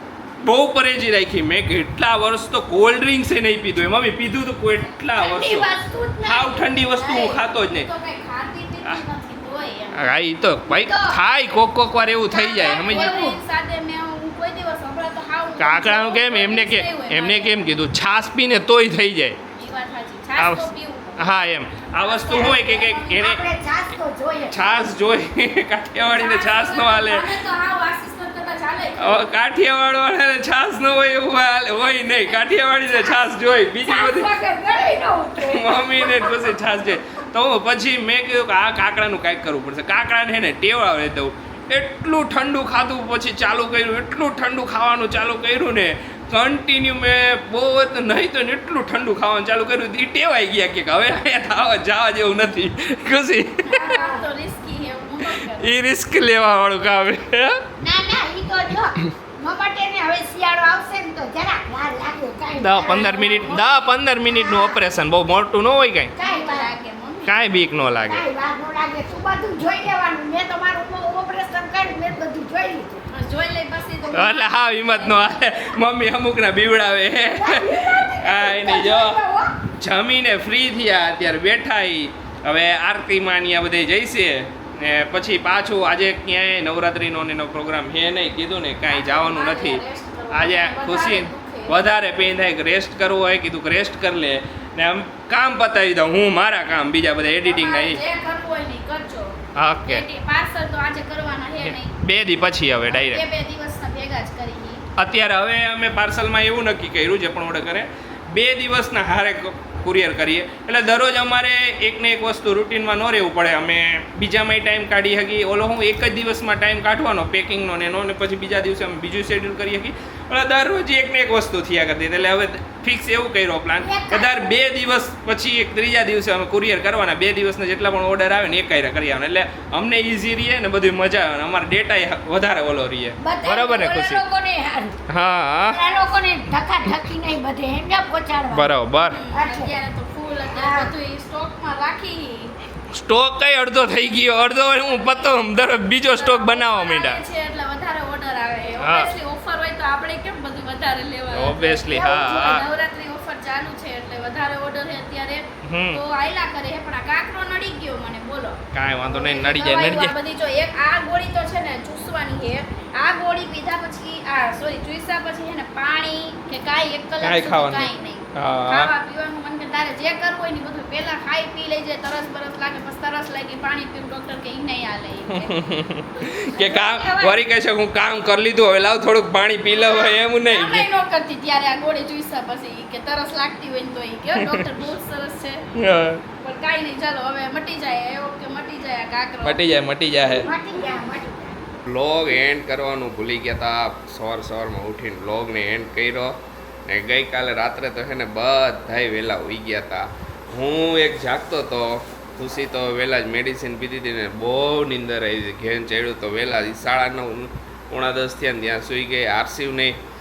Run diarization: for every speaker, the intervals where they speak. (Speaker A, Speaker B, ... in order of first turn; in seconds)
Speaker A: 0.4-5.7, 6.2-7.9, 9.9-13.3, 15.6-19.4, 20.4-23.4, 24.5-27.3, 29.0-34.3, 35.4-53.7, 55.3-57.6, 62.6-66.1, 67.2-68.2, 74.1-79.2, 79.8-98.0, 99.5-100.0, 101.6-103.2, 105.0-134.2, 135.1-135.8, 138.5-139.2, 142.9-147.2, 148.8-149.1, 151.3-152.7, 155.6-156.0, 158.7-160.1, 167.2-168.9, 175.3-180.8, 184.3-184.6, 185.8-186.2, 189.4-190.5, 191.8-196.3, 196.9-209.9
Speaker B: 5.1-6.8, 10.7-11.2, 12.5-13.3, 22.3-24.7, 33.8-36.7, 53.8-54.2, 57.8-63.3, 64.3-64.8, 66.2-66.7, 68.1-73.0, 77.3-79.5, 123.8-124.5, 133.2-134.9, 135.7-138.7, 139.3-139.8, 140.5-140.9, 152.1-152.4, 190.4-191.6
Speaker C: 6.9-10.0, 12.3-17.8, 19.6-23.4, 26.0-29.3, 53.7-55.7, 62.8-64.0, 66.2-67.3, 73.1-75.6, 88.9-91.8, 97.4-102.0, 102.8-104.8, 139.1-142.5, 144.1-145.4, 146.1-175.7, 176.2-177.4, 179.7-185.6, 186.4-189.6